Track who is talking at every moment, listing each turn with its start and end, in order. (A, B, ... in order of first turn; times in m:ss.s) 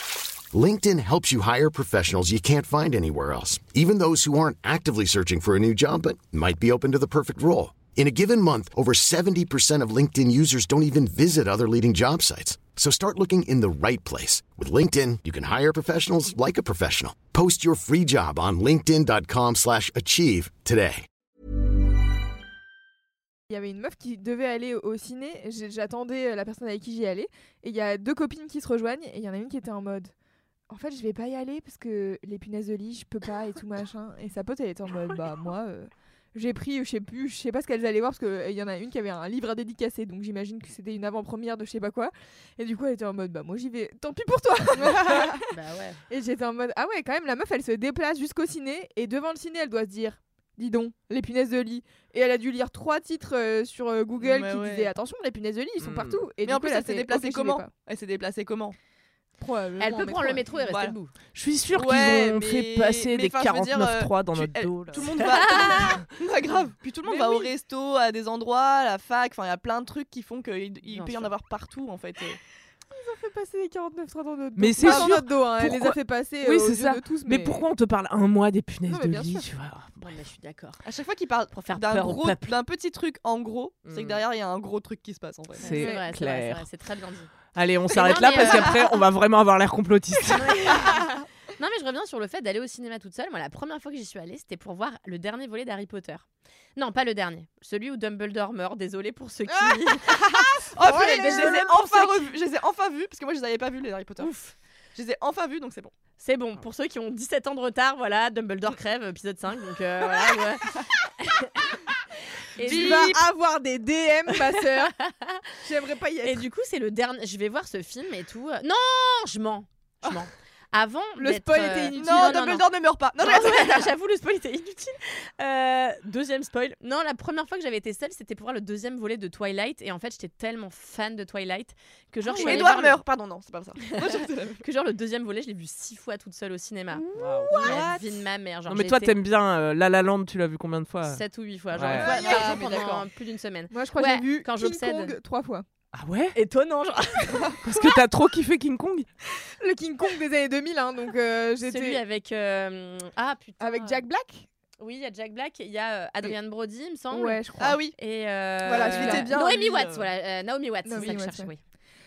0:00.5-0:21.1 A
0:23.5-0:30.1 B
0:30.7-0:45.4 B
0:45.5-0:46.0 C
0:46.1-0:57.7 B
0:54.2-0:54.9 D
0:55.8-0:56.3 E
0:56.4-0:58.8 D
0:59.4-1:00.6 B
0:59.8-1:01.2 C
1:00.7-1:01.0 D
1:01.2-1:05.4 E
1:01.7-1:12.4 D
1:05.2-1:06.0 C
1:07.0-1:07.5 B
1:10.9-1:11.3 C
1:12.9-1:17.7 B
1:14.6-1:20.2 E
1:14.8-1:15.2 D
1:18.9-1:19.5 B
1:20.0-1:20.8 C
1:20.8-1:25.8 D
1:21.5-1:22.6 C
1:23.9-1:24.2 E
1:25.6-1:26.6 E
1:25.7-1:27.4 C
1:27.5-1:30.7 E
1:27.9-1:29.0 C
1:28.0-1:28.7 D
1:30.2-1:40.3 C
1:40.1-1:44.3 D
1:40.4-1:41.8 B
1:40.8-1:42.2 C
1:44.2-1:44.6 C
1:45.0-1:45.9 D
1:46.2-1:51.9 C
1:52.5-1:53.2 C
1:52.6-1:54.9 B
1:52.6-1:53.2 D
1:54.3-1:55.4 C
1:55.6-1:56.4 B
1:56.2-2:13.0 C
2:01.2-2:02.5 B
2:01.9-2:03.9 D
2:12.3-2:14.6 D
2:14.6-2:19.1 C
2:17.1-2:17.8 E
2:17.3-2:18.2 D
2:18.7-2:21.2 E
2:21.0-2:25.2 C
2:21.7-2:22.1 E
2:21.9-2:23.0 D
2:21.9-2:22.9 B
2:23.7-2:25.6 B
2:25.9-2:26.4 E
2:26.4-2:27.8 C
2:27.6-2:29.1 E
2:29.6-2:32.0 B
2:31.6-2:34.0 C
2:33.6-2:34.5 B
2:34.8-2:41.6 C
2:37.1-2:37.8 B
2:37.6-2:38.0 D
2:38.6-2:40.1 D
2:38.7-2:39.4 B
2:40.8-2:41.5 B